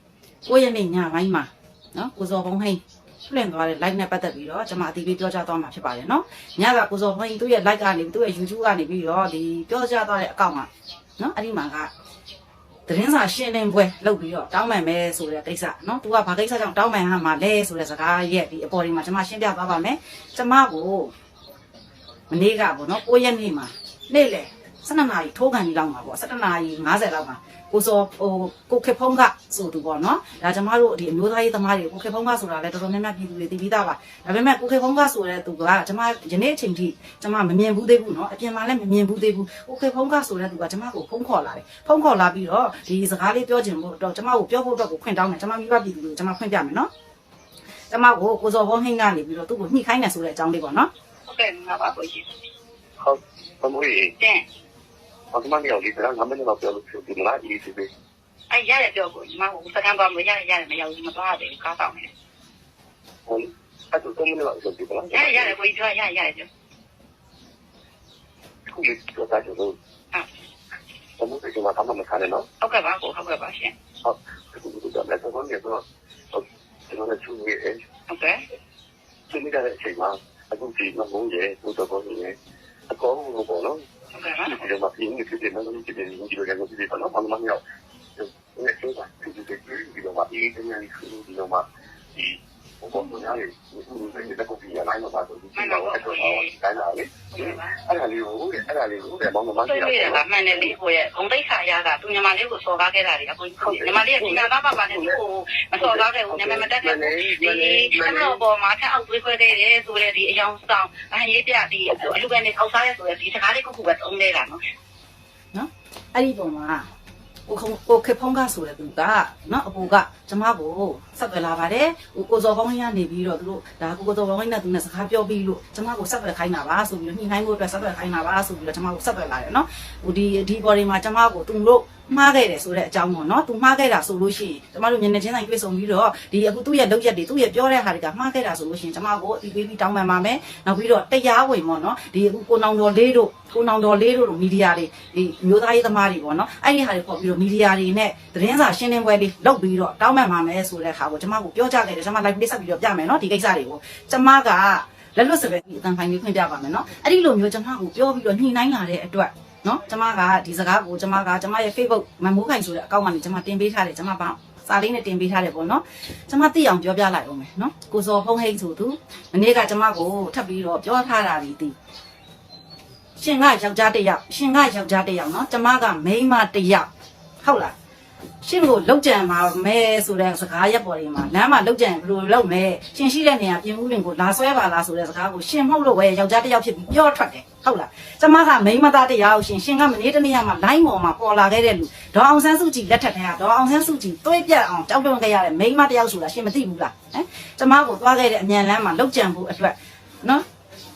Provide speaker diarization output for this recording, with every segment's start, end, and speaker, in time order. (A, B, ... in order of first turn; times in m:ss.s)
0:00.4-0:11.9 A
0:12.9-0:21.1 A
0:22.3-0:46.9 A
0:47.9-0:50.9 A
0:51.3-0:52.3 B
0:53.0-0:54.1 C
0:55.3-0:57.9 C
0:58.5-1:02.1 B
1:03.3-1:05.6 C
1:05.1-1:06.5 B
1:08.7-1:09.8 C
1:11.2-1:12.5 C
1:12.6-1:13.7 B
1:14.0-1:17.8 C
1:18.1-1:18.4 B
1:19.3-1:22.4 C
1:22.9-1:23.8 C
1:24.2-1:24.6 B
1:24.5-1:27.6 C
1:28.2-1:40.7 C
1:35.6-1:36.5 B
1:37.3-1:37.8 B
1:39.7-1:54.6 B
1:43.6-1:45.2 C
1:45.8-1:48.4 C
1:55.5-1:56.9 A
1:57.5-2:51.8 A
2:53.2-2:56.9 A
2:57.4-2:57.7 A
2:58.4-3:20.4 A